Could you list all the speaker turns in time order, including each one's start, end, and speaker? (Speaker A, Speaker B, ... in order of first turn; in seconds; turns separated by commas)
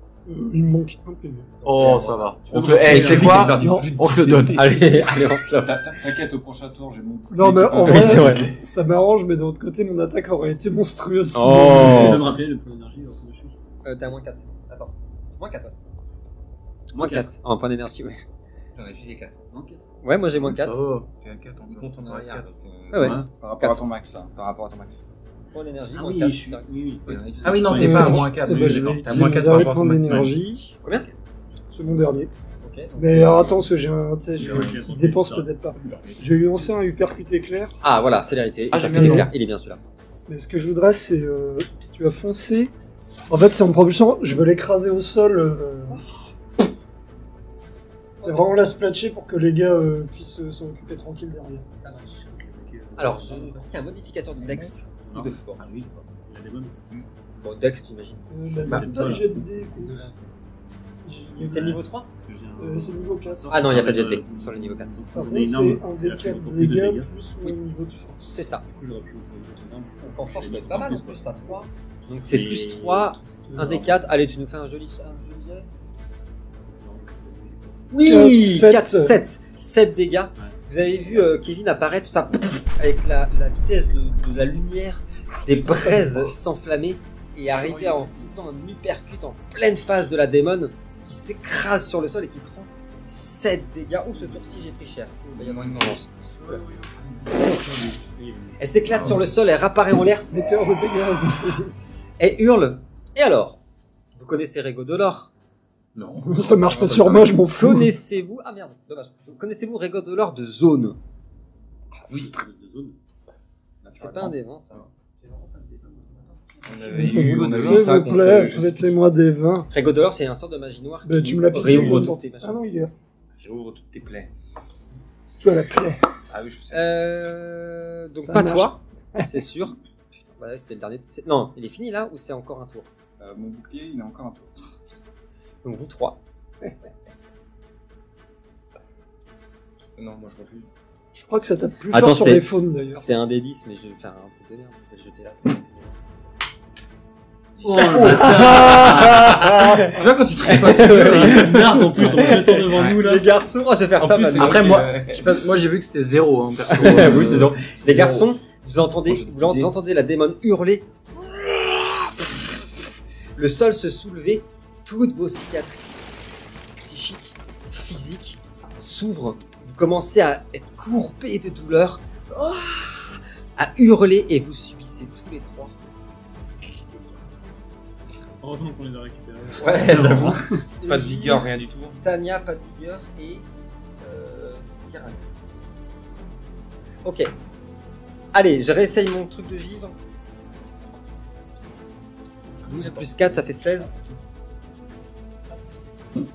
Speaker A: 0.2-1.8, Speaker B: 1.6-5.0, Speaker C: 1.9-4.9, Speaker D: 2.5-3.6, Speaker E: 2.6-3.8, Speaker A: 3.4-3.9, Speaker F: 4.5-5.8, Speaker E: 5.5-8.6, Speaker A: 7.3-12.2, Speaker F: 7.8-8.5, Speaker F: 11.3-12.2, Speaker D: 11.5-13.6, Speaker F: 13.8-15.7, Speaker F: 16.9-18.2, Speaker D: 17.0-17.2, Speaker C: 18.8-19.4, Speaker D: 19.5-19.8, Speaker F: 20.0-20.8, Speaker B: 20.4-21.1, Speaker C: 21.2-23.7, Speaker B: 21.6-22.4, Speaker F: 22.9-23.8, Speaker D: 22.9-23.3, Speaker E: 23.3-24.3, Speaker C: 24.3-25.0, Speaker F: 25.5-26.8, Speaker D: 25.9-29.0, Speaker C: 27.0-28.2, Speaker B: 27.4-30.4, Speaker A: 27.7-30.8, Speaker D: 30.8-31.2, Speaker A: 31.7-32.3, Speaker F: 32.6-33.3, Speaker A: 32.9-37.8, Speaker D: 34.4-35.5, Speaker C: 34.4-34.7, Speaker C: 35.8-36.2, Speaker F: 37.8-39.8, Speaker B: 38.7-39.3, Speaker A: 38.9-39.3, Speaker A: 40.3-42.7, Speaker A: 43.3-46.0, Speaker A: 48.2-51.6, Speaker F: 51.8-52.1, Speaker D: 51.8-53.7, Speaker F: 53.0-55.9, Speaker D: 55.0-56.8, Speaker C: 55.5-55.9, Speaker F: 57.4-58.2, Speaker A: 58.3-60.1, Speaker D: 58.5-60.1, Speaker A: 61.0-61.8, Speaker F: 61.4-62.1, Speaker D: 62.2-67.1, Speaker A: 62.6-63.6, Speaker F: 63.5-65.0, Speaker A: 65.1-68.5, Speaker F: 68.3-68.6, Speaker D: 68.6-71.3, Speaker F: 70.0-75.7, Speaker D: 72.2-74.0, Speaker D: 76.6-77.9, Speaker F: 77.9-96.6, Speaker A: 78.0-79.2, Speaker A: 85.5-86.3, Speaker C: 95.4-97.4, Speaker D: 97.3-99.1, Speaker F: 98.6-100.5, Speaker C: 98.9-99.2, Speaker A: 100.3-101.7, Speaker F: 102.2-103.6, Speaker F: 104.1-105.3, Speaker C: 105.9-107.4, Speaker A: 106.2-107.9, Speaker F: 107.5-111.0, Speaker D: 112.1-113.0, Speaker C: 112.1-112.3, Speaker F: 113.9-117.3, Speaker E: 114.0-114.3, Speaker C: 116.6-119.0, Speaker A: 116.9-119.7, Speaker F: 119.7-122.6, Speaker A: 121.0-122.9, Speaker C: 123.4-124.3, Speaker A: 125.3-126.0, Speaker C: 126.3-127.0, Speaker F: 126.7-132.9, Speaker A: 128.2-129.3, Speaker E: 133.2-134.7, Speaker F: 135.6-136.2, Speaker C: 139.9-140.7, Speaker A: 141.1-143.1, Speaker F: 141.9-146.0, Speaker C: 147.5-153.0, Speaker D: 147.6-149.1, Speaker B: 147.9-149.4, Speaker F: 148.0-154.8, Speaker D: 150.7-153.3, Speaker C: 154.0-155.4, Speaker B: 154.3-157.8, Speaker F: 156.7-162.5, Speaker C: 157.8-158.2, Speaker C: 159.0-159.7, Speaker F: 163.3-166.2, Speaker F: 166.8-175.8, Speaker F: 176.6-177.2, Speaker D: 178.4-180.6, Speaker F: 179.6-183.4, Speaker C: 180.8-182.0, Speaker F: 184.0-185.4, Speaker F: 187.0-187.3, Speaker F: 188.3-190.0, Speaker C: 192.7-193.4, Speaker F: 192.7-193.9, Speaker B: 192.7-193.3